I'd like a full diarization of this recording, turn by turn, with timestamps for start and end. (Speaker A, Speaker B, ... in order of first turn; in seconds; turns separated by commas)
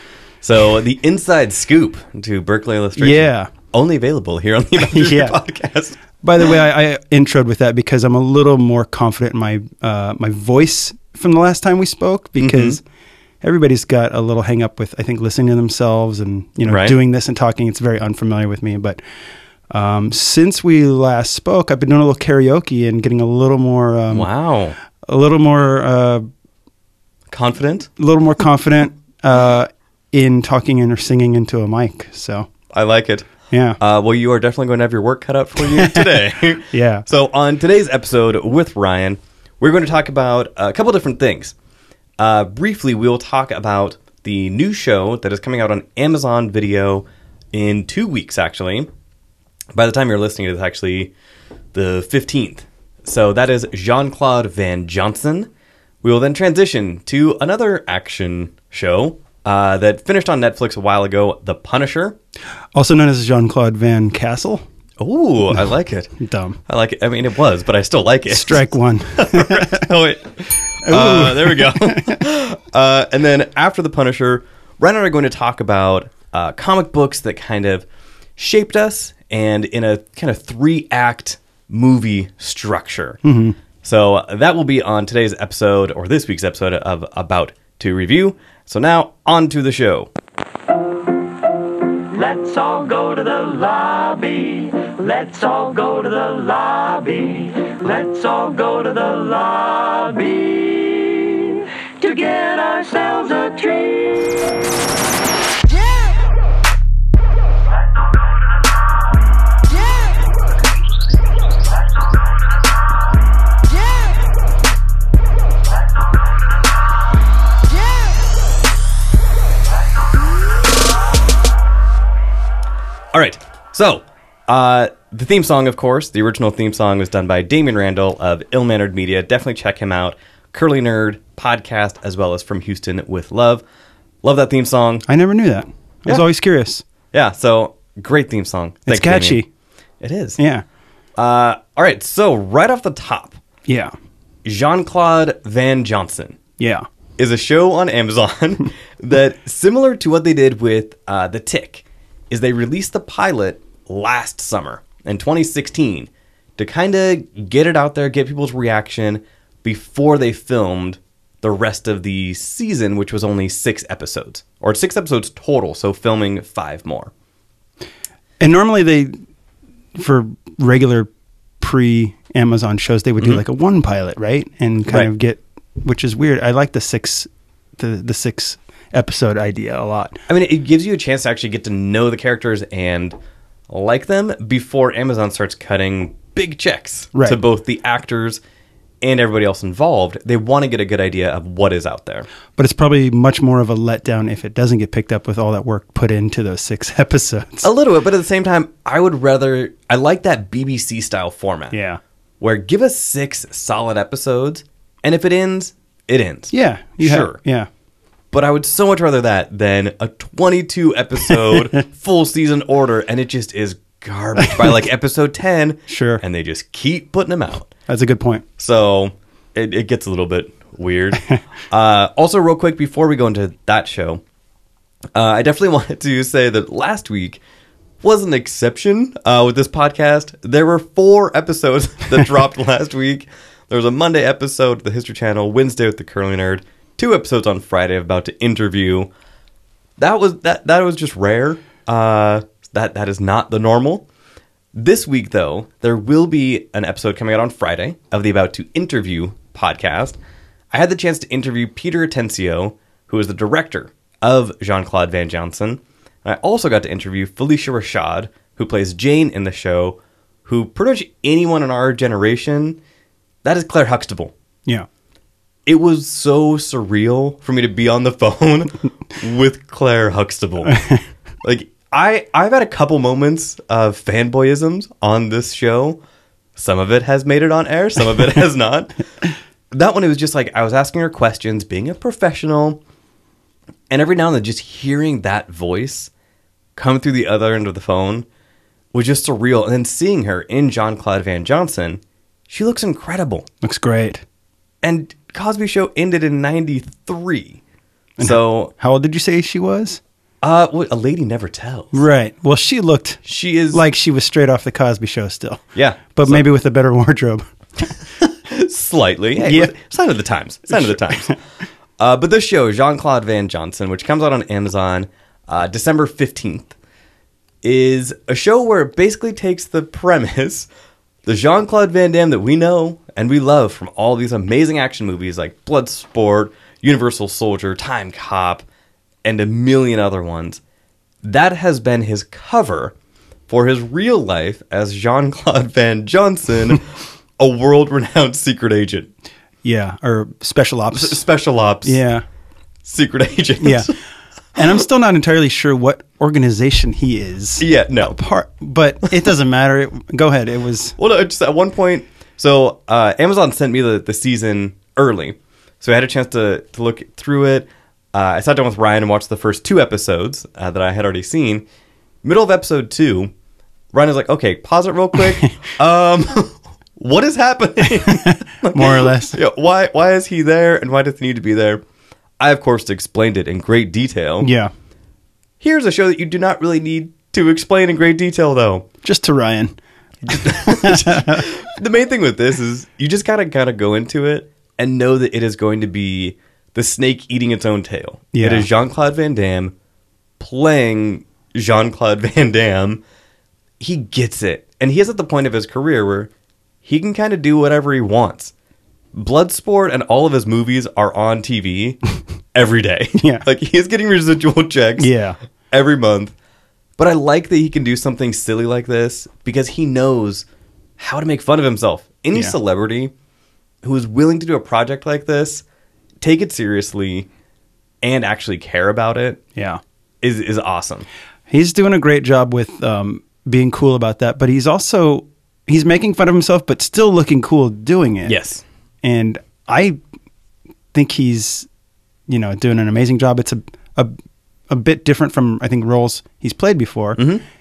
Speaker A: 0.4-6.0, Speaker B: 3.0-3.5, Speaker B: 4.8-5.4, Speaker B: 6.2-12.8, Speaker A: 12.4-12.8, Speaker B: 13.4-19.0, Speaker A: 16.6-17.0, Speaker B: 19.7-24.3, Speaker A: 24.1-24.8, Speaker B: 25.0-26.2, Speaker A: 27.3-27.9, Speaker B: 28.0-32.5, Speaker A: 32.7-41.5, Speaker B: 33.5-33.8, Speaker B: 35.7-37.0, Speaker A: 42.2-48.9, Speaker A: 49.7-51.1, Speaker A: 51.7-55.5, Speaker A: 56.0-62.2, Speaker B: 62.7-64.6, Speaker A: 65.0-66.1, Speaker B: 66.2-66.6, Speaker A: 66.7-77.8, Speaker B: 68.3-69.9, Speaker B: 70.8-72.2, Speaker A: 78.4-83.2, Speaker B: 83.2-83.5, Speaker A: 83.8-90.1, Speaker C: 92.1-104.4, Speaker C: 108.0-108.7, Speaker A: 123.1-133.6, Speaker A: 134.2-135.0, Speaker B: 135.1-136.8, Speaker A: 137.1-139.4, Speaker B: 138.9-139.5, Speaker A: 140.0-140.4, Speaker B: 140.4-140.6, Speaker A: 141.2-143.4, Speaker B: 143.7-143.9, Speaker A: 144.4-146.4, Speaker B: 146.6-146.8, Speaker A: 147.2-167.1, Speaker B: 168.4-169.1, Speaker B: 169.9-171.1, Speaker B: 171.6-180.2, Speaker A: 180.3-183.2, Speaker A: 183.7-188.4, Speaker B: 187.1-187.4, Speaker A: 189.0-192.3, Speaker B: 192.6-197.7, Speaker A: 197.6-201.8, Speaker B: 201.7-202.0, Speaker A: 202.4-207.4, Speaker B: 206.5-207.7, Speaker A: 208.3-217.7, Speaker B: 214.5-214.8, Speaker B: 215.9-216.2, Speaker B: 217.9-218.4, Speaker A: 218.6-224.2, Speaker A: 225.1-227.4, Speaker A: 228.0-239.1, Speaker A: 240.0-244.1, Speaker A: 244.7-250.2, Speaker A: 250.7-262.8, Speaker A: 263.4-264.3, Speaker A: 265.6-270.8, Speaker B: 270.6-271.0, Speaker A: 271.4-276.0, Speaker A: 276.6-279.0, Speaker A: 279.7-282.8, Speaker A: 283.9-286.1, Speaker A: 286.8-288.2, Speaker A: 288.9-293.4, Speaker B: 293.6-294.2, Speaker A: 294.8-297.6, Speaker B: 298.2-300.0, Speaker A: 298.2-298.7, Speaker A: 300.4-302.0, Speaker B: 301.9-305.6, Speaker A: 303.2-303.8, Speaker A: 305.7-306.4, Speaker B: 306.1-307.9, Speaker A: 308.2-311.4, Speaker B: 309.4-309.7, Speaker B: 310.7-311.4, Speaker A: 312.0-316.7, Speaker A: 317.6-320.7, Speaker A: 321.2-328.6, Speaker A: 329.2-330.6, Speaker A: 331.2-332.9, Speaker A: 333.5-339.1, Speaker B: 339.6-341.2, Speaker A: 340.9-342.0, Speaker B: 341.8-342.2, Speaker A: 342.8-343.9, Speaker B: 343.6-343.9, Speaker B: 344.5-350.9, Speaker A: 347.6-348.2, Speaker A: 351.0-361.6, Speaker A: 362.2-363.3, Speaker A: 363.9-371.8, Speaker B: 368.0-369.4, Speaker A: 372.4-374.5, Speaker B: 374.4-374.7, Speaker A: 375.6-378.9, Speaker B: 379.0-379.8, Speaker A: 380.2-389.7, Speaker B: 380.3-381.5, Speaker B: 388.3-388.7, Speaker A: 390.4-393.0, Speaker A: 393.8-396.3, Speaker A: 396.8-398.5, Speaker A: 399.1-402.0, Speaker A: 402.5-405.1, Speaker B: 403.2-403.4, Speaker B: 405.0-405.4, Speaker A: 405.7-406.3, Speaker A: 407.0-410.4, Speaker A: 411.0-413.1, Speaker A: 413.8-415.6, Speaker A: 416.2-417.3, Speaker A: 418.0-419.4, Speaker B: 419.6-419.8, Speaker A: 420.2-421.1, Speaker B: 421.5-428.3, Speaker A: 428.2-428.6, Speaker B: 429.0-430.0, Speaker B: 430.9-431.7, Speaker B: 432.3-434.1, Speaker B: 434.7-437.2, Speaker A: 437.2-437.4